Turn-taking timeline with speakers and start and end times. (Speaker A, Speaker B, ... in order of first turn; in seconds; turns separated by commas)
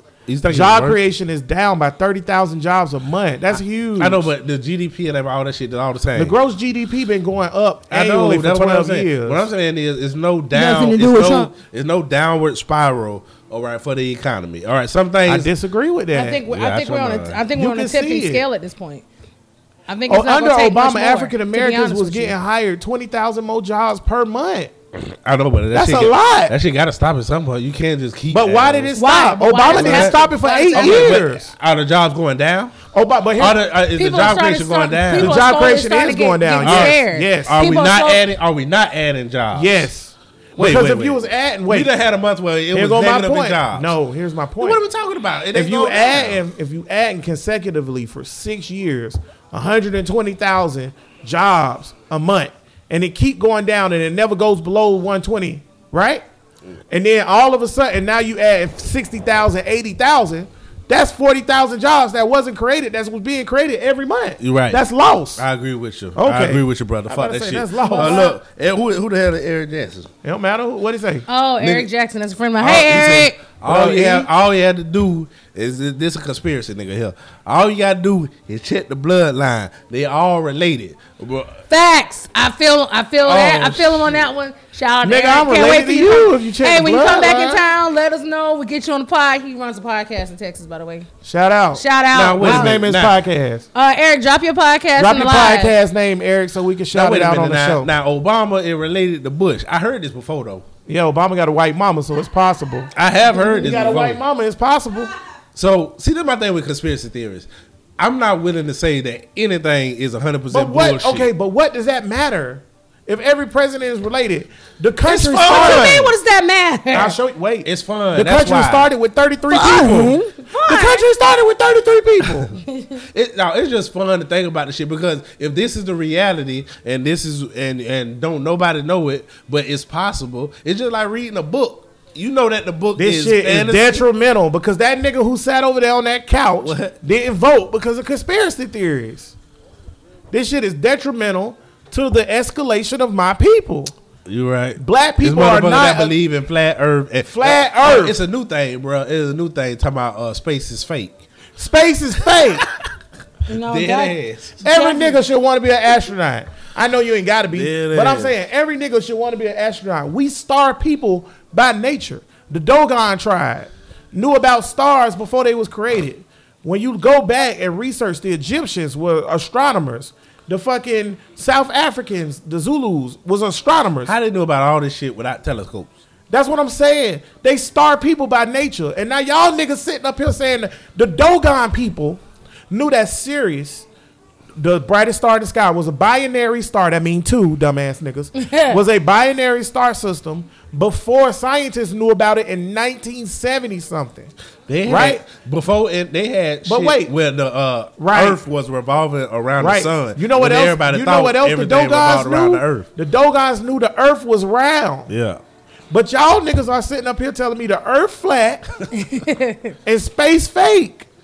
Speaker A: 0.3-1.0, Speaker B: 0.5-4.3, Speaker A: 4.0-6.4, Speaker B: 6.2-9.5, Speaker A: 7.9-15.5, Speaker C: 10.5-11.5, Speaker B: 15.3-16.4, Speaker C: 16.1-19.1, Speaker A: 16.5-17.4, Speaker B: 17.6-18.4, Speaker C: 19.9-22.4, Speaker B: 20.1-24.7, Speaker A: 24.9-28.9, Speaker B: 25.7-26.6, Speaker B: 28.3-31.5, Speaker C: 29.0-31.2, Speaker A: 29.6-30.2, Speaker A: 30.7-32.8, Speaker B: 32.9-33.6, Speaker A: 33.4-35.5, Speaker C: 33.9-38.2, Speaker B: 35.2-37.6, Speaker A: 36.6-39.9, Speaker B: 39.5-41.9, Speaker A: 40.6-43.9, Speaker B: 42.7-44.8, Speaker A: 44.6-46.4, Speaker B: 45.5-56.2, Speaker B: 56.9-65.4, Speaker A: 64.4-64.8, Speaker A: 65.4-70.1, Speaker B: 66.2-68.3, Speaker C: 67.8-68.3, Speaker B: 70.2-71.2, Speaker C: 71.3-73.4, Speaker A: 71.6-71.9, Speaker A: 72.6-81.6, Speaker B: 73.6-74.3, Speaker C: 81.7-91.1, Speaker A: 83.2-84.2, Speaker B: 85.0-87.6, Speaker B: 91.2-91.8, Speaker C: 91.8-92.8, Speaker A: 92.1-93.2, Speaker B: 92.4-93.7, Speaker C: 93.7-95.8, Speaker B: 95.0-97.9, Speaker A: 96.9-100.7, Speaker B: 100.9-105.1, Speaker A: 102.9-104.2, Speaker A: 105.5-111.3, Speaker B: 110.5-116.2, Speaker C: 115.1-117.2, Speaker A: 115.1-116.0, Speaker B: 116.9-122.5, Speaker A: 117.6-118.9, Speaker C: 119.5-121.1, Speaker C: 122.7-123.0, Speaker A: 123.1-134.0, Speaker B: 133.0-139.3, Speaker A: 136.6-137.0, Speaker B: 140.3-143.9, Speaker A: 144.3-151.2, Speaker B: 144.8-146.1, Speaker B: 147.2-148.2, Speaker B: 151.6-152.7, Speaker A: 152.2-152.6, Speaker C: 153.5-155.2, Speaker A: 153.6-154.6, Speaker B: 154.6-174.1, Speaker A: 157.5-158.3, Speaker A: 174.0-175.9, Speaker B: 176.3-183.9, Speaker B: 184.6-194.3, Speaker C: 188.4-188.8, Speaker A: 194.7-202.9, Speaker B: 194.9-195.2, Speaker B: 196.7-197.1, Speaker B: 198.0-198.4, Speaker B: 199.6-205.1, Speaker A: 205.1-205.4, Speaker B: 205.9-208.7, Speaker C: 208.9-209.8, Speaker B: 209.9-211.1